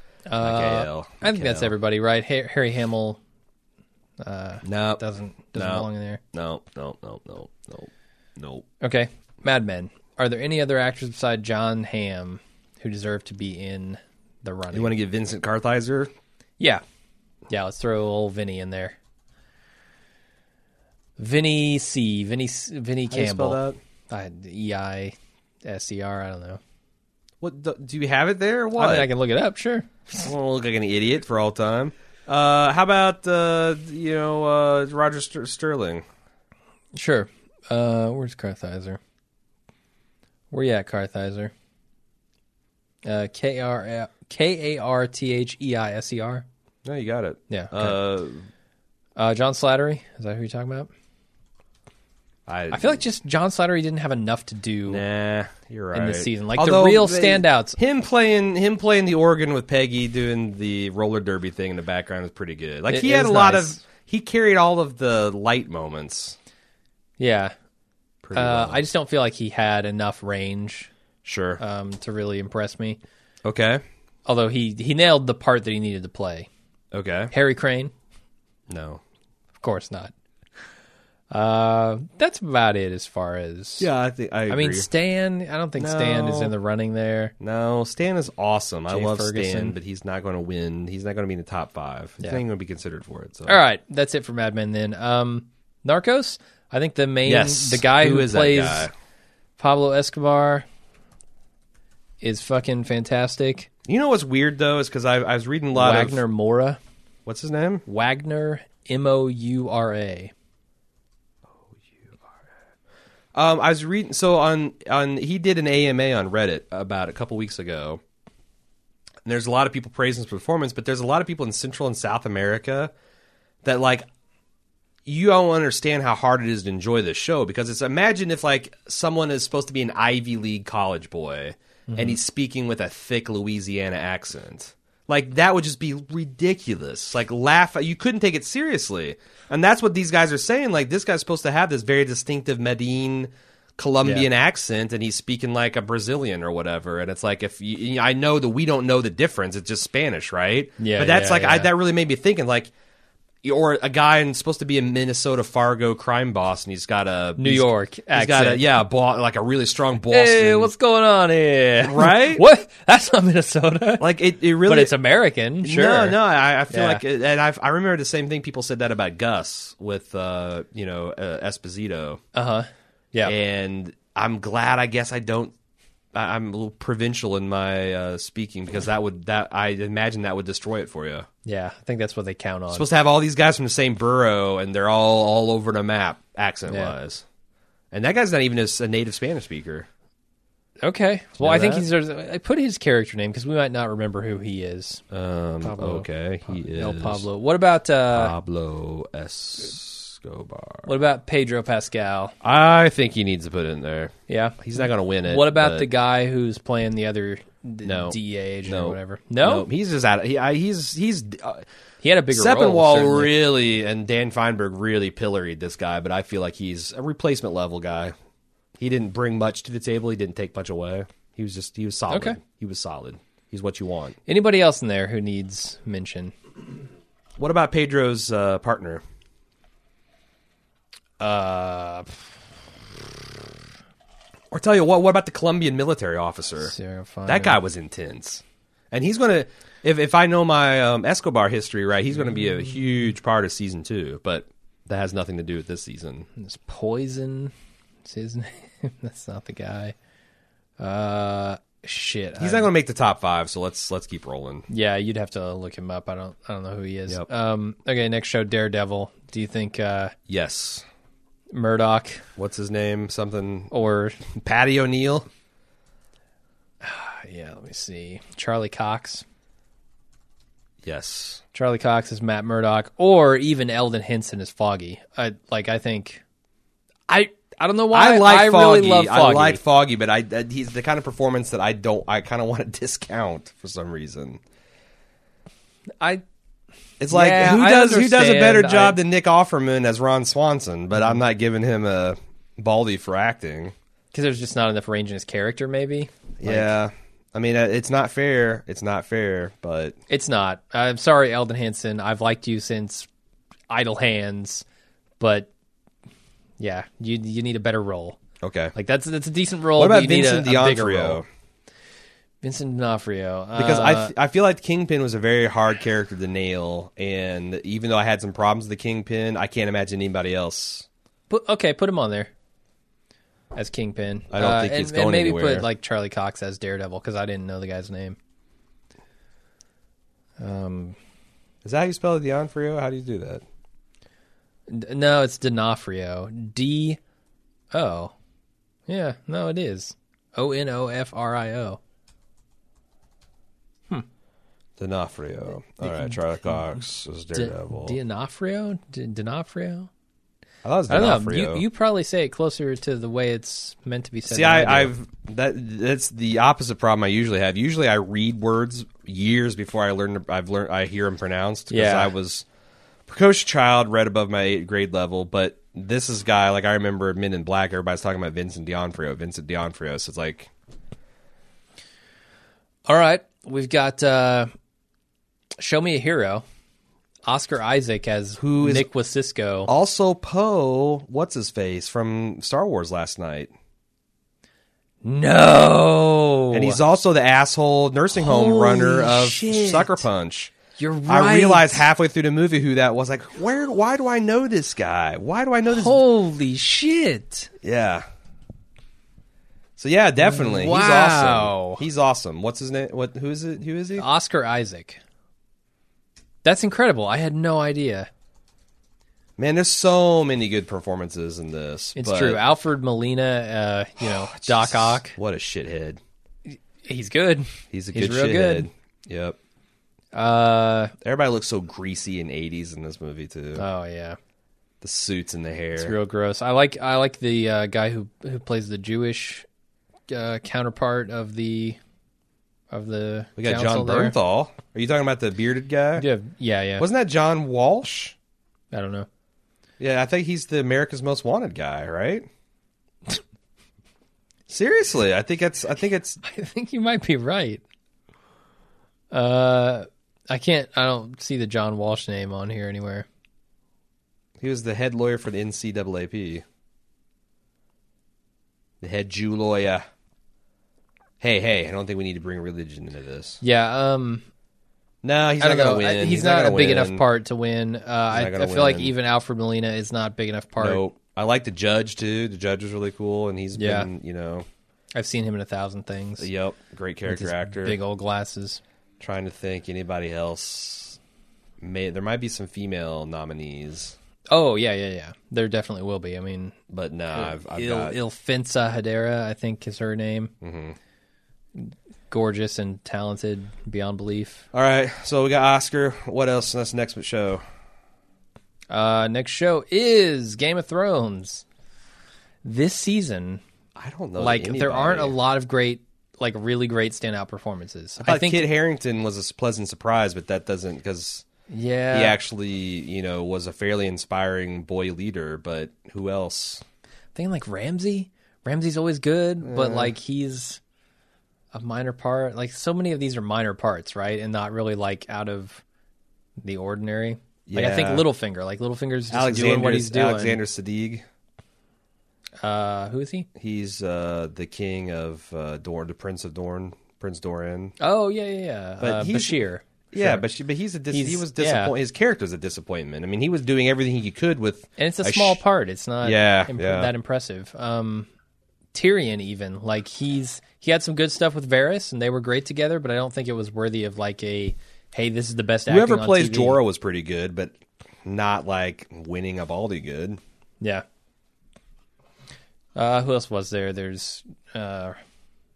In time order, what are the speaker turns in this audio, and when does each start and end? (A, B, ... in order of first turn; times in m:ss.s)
0:00.3-0:03.2 A
0:00.4-0:01.7 B
0:04.2-0:06.2 A
0:04.6-0:05.0 B
0:05.5-0:08.7 B
0:08.8-0:14.9 A
0:14.7-0:16.1 B
0:17.5-0:19.0 A
0:21.2-0:26.6 A
0:23.1-0:23.8 B
0:27.4-0:29.1 B
0:28.8-0:30.3 A
0:30.2-0:36.0 B
0:36.9-0:39.0 A
0:40.5-0:41.5 A
0:43.0-0:46.4 A
0:46.8-0:48.5 B
0:47.5-0:48.0 A
0:49.2-0:50.9 A
0:52.5-0:53.0 B
0:52.7-0:55.0 A
0:54.9-1:06.4 B
0:55.9-0:57.8 A
1:02.9-1:03.8 A
1:07.2-1:07.6 A
1:08.2-1:08.8 B
1:08.4-1:10.9 A
1:11.2-1:11.6 B
1:11.6-1:13.0 A
1:13.4-1:13.8 B
1:14.3-1:16.5 A
1:16.9-1:17.3 B
1:17.3-1:17.9 A
1:18.7-1:19.0 B
1:19.6-1:20.1 A
1:21.3-1:23.9 A
1:23.8-1:24.9 B
1:24.5-1:27.3 A
1:25.8-1:26.5 B
1:27.4-1:33.6 B
1:28.9-1:29.8 A
1:33.5-1:38.9 A
1:37.2-1:38.9 B
1:39.6-1:40.6 A
1:42.2-1:43.7 A
1:43.9-1:46.2 B
1:45.7-1:46.8 A
1:47.3-1:47.8 B
1:47.9-1:50.3 A
1:53.3-1:58.0 B
1:59.2-2:02.9 B
2:03.6-2:04.1 B
2:05.1-2:32.7 B
2:11.9-2:12.2 A
2:30.8-2:31.7 A
2:33.4-2:40.7 B
2:37.4-2:38.6 A
2:40.1-2:44.1 A
2:41.8-2:42.4 B
2:44.0-2:44.9 B
2:44.6-2:47.0 A
2:45.6-2:52.2 B
2:52.3-2:53.4 A
2:53.2-2:55.5 B
2:56.1-3:01.3 B
3:01.4-3:02.8 A
3:02.7-3:07.2 B
3:06.7-3:07.0 A
3:07.9-3:09.9 B
3:10.8-3:15.0 A
3:11.4-3:11.9 B
3:15.1-3:17.2 B
3:15.6-3:18.3 A
3:18.1-3:20.9 B
3:20.8-3:22.4 A
3:22.4-3:25.9 B
3:24.3-3:24.6 A
3:25.3-3:29.7 A
3:27.8-3:31.6 B
3:32.0-3:33.3 A
3:32.3-3:38.1 B
3:38.8-3:44.2 B
3:42.1-3:42.4 A
3:44.3-3:46.3 A
3:47.4-3:49.0 B
3:51.2-3:52.2 A
3:54.5-3:56.7 B
3:56.6-3:57.6 A
3:57.3-4:06.3 B
4:06.4-4:07.5 A
4:08.0-4:10.0 A
4:10.8-4:12.7 A
4:12.4-4:14.7 B
4:14.7-4:20.2 A
4:20.3-4:20.9 B
4:21.5-4:22.3 A
4:22.4-4:23.7 B
4:23.7-4:24.2 A
4:24.3-4:25.3 B
4:26.8-4:29.2 A
4:30.8-4:31.4 B
4:31.5-4:36.2 A
4:37.1-4:39.6 A
4:37.9-4:44.4 B
4:47.0-4:53.8 B
4:47.1-4:49.0 A
4:54.1-4:56.7 A
4:56.4-5:00.0 B
5:00.1-5:03.1 A
5:03.7-5:04.6 A
5:05.2-5:05.5 A
5:06.6-5:08.2 A
5:08.4-5:08.7 B
5:08.8-5:11.2 A
5:09.8-5:11.3 B
5:12.4-5:14.1 A
5:13.6-5:20.9 B
5:21.3-5:22.3 A
5:23.5-5:28.2 A
5:24.3-5:25.7 B
5:30.4-5:31.0 A
5:31.6-5:33.4 B
5:34.7-5:37.0 A
5:37.7-5:38.1 A
5:38.9-5:41.8 A
5:44.8-5:48.0 B
5:45.8-5:46.2 A
5:47.3-5:49.9 A
5:50.6-5:51.6 B
5:50.9-5:54.9 A
5:54.2-6:02.5 B
6:01.7-6:02.1 A
6:03.1-6:10.5 B
6:12.9-6:14.5 A
6:15.6-6:16.4 A
6:17.2-6:19.7 A
6:18.4-6:18.9 B
6:19.7-6:23.5 B
6:25.0-6:26.8 A
6:26.5-6:30.5 B
6:28.2-6:30.0 A
6:30.8-6:31.9 A
6:31.1-6:36.0 B
6:35.7-6:37.5 A
6:37.6-6:38.1 B
6:39.8-6:44.0 B
6:40.2-6:41.8 A
6:44.0-6:45.0 A
6:46.4-6:48.1 A
6:49.4-6:52.4 B
6:52.0-6:55.2 A
6:54.0-6:56.0 B
6:56.5-6:58.7 A
6:57.7-6:59.4 B
7:00.1-7:00.9 A
7:01.0-7:03.6 B
7:03.6-7:04.2 A
7:04.8-7:06.0 B
7:05.8-7:09.5 A
7:10.1-7:11.8 A
7:12.7-7:14.2 A
7:13.4-7:16.1 B
7:16.0-7:16.9 A
7:16.8-7:18.2 B
7:18.7-7:19.1 A
7:19.8-7:22.3 B
7:24.5-7:26.2 B
7:26.2-7:27.6 A
7:29.1-7:33.1 A
7:34.4-7:36.4 B
7:38.8-7:39.8 B
7:41.2-7:43.4 B
7:43.4-7:44.3 A
7:45.0-7:47.0 B
7:45.4-7:50.8 A
7:48.1-7:48.9 B
7:50.6-7:54.5 B
7:53.6-7:53.9 A
7:54.9-7:56.3 A
7:56.2-7:57.8 B
7:57.1-7:58.6 A
7:59.0-8:01.0 B
8:01.6-8:04.0 B
8:04.3-8:06.6 A
8:06.7-8:08.0 B
8:07.1-8:10.3 A
8:10.4-8:10.8 B
8:11.6-8:14.5 A
8:14.5-8:17.4 B
8:18.7-8:21.4 A
8:22.4-8:23.4 A
8:23.8-8:25.2 B
8:24.2-8:28.5 A
8:28.0-8:31.3 B
8:31.5-8:32.2 A
8:31.9-8:36.6 B
8:37.2-8:40.6 A
8:39.4-8:40.0 B
8:41.5-8:45.6 A
8:46.4-8:50.4 A
8:47.5-8:48.1 B
8:49.1-8:51.0 B
8:52.4-8:53.3 A
8:53.4-8:57.8 B
8:57.8-9:00.2 A
8:58.8-8:59.4 B
8:59.9-9:05.4 B
9:00.9-9:01.7 A
9:04.8-9:08.1 A
9:06.0-9:06.9 B
9:08.7-9:16.6 A
9:15.7-9:20.2 B
9:22.8-9:25.0 A